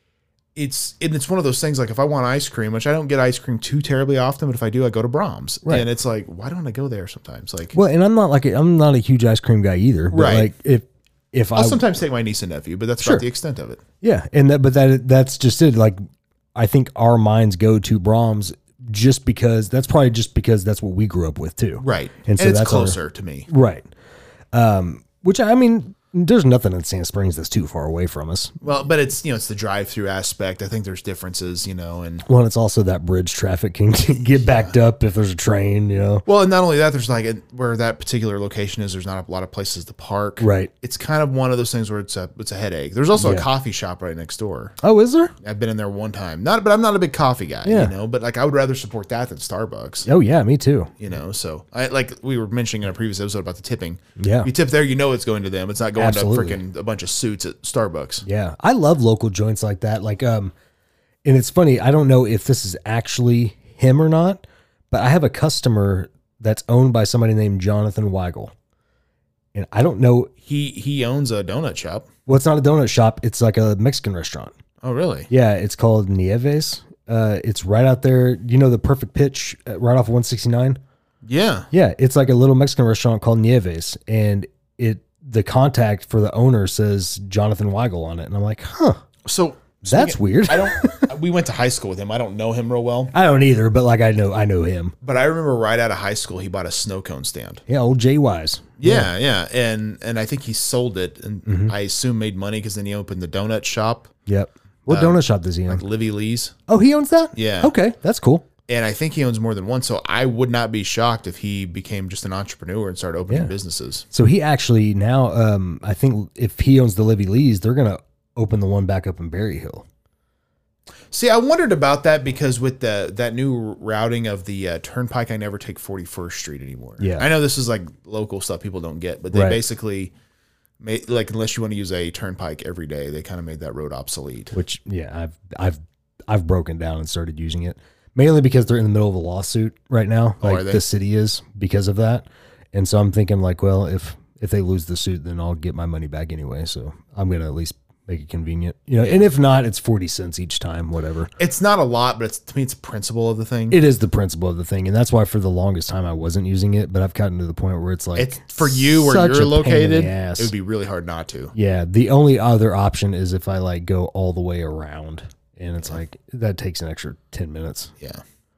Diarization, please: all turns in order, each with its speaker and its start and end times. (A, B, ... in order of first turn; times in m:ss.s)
0:00.5-0:07.8 A
0:07.7-0:11.8 B
0:10.1-0:10.5 A
0:11.5-0:13.8 A
0:13.0-0:13.2 B
0:14.0-0:16.0 B
0:16.5-0:23.9 B
0:21.8-0:23.5 A
0:24.5-0:28.6 B
0:28.6-0:32.2 A
0:32.2-0:36.2 B
0:36.2-0:44.7 A
0:40.4-0:40.7 B
0:43.2-0:43.4 B
0:44.8-0:45.3 B
0:45.4-0:50.1 A
0:47.6-0:47.9 B
0:50.0-0:50.9 B
0:51.0-0:58.2 A
0:54.2-0:54.5 B
0:56.0-0:56.6 B
0:58.2-1:00.5 B
1:01.2-1:08.5 B
1:09.5-1:10.3 B
1:10.4-1:12.1 A
1:12.3-1:14.5 B
1:14.8-1:15.3 A
1:15.3-1:20.8 B
1:21.2-1:21.7 A
1:21.7-1:29.0 B
1:29.2-1:33.1 A
1:29.8-1:31.1 B
1:33.1-1:34.9 B
1:35.0-1:37.6 A
1:37.7-1:39.1 B
1:38.8-1:44.1 A
1:41.4-1:41.7 B
1:44.3-1:45.8 B
1:44.9-1:46.6 A
1:46.7-1:48.4 B
1:47.4-1:47.7 A
1:48.7-1:54.0 A
1:54.1-1:59.8 B
2:01.1-2:10.1 A
2:07.0-2:07.3 B
2:09.3-2:09.6 B
2:10.8-2:14.6 A
2:14.5-2:31.3 B
2:20.4-2:20.8 A
2:31.4-2:33.8 A
2:33.7-2:40.5 B
2:38.1-2:41.5 A
2:41.5-2:47.9 B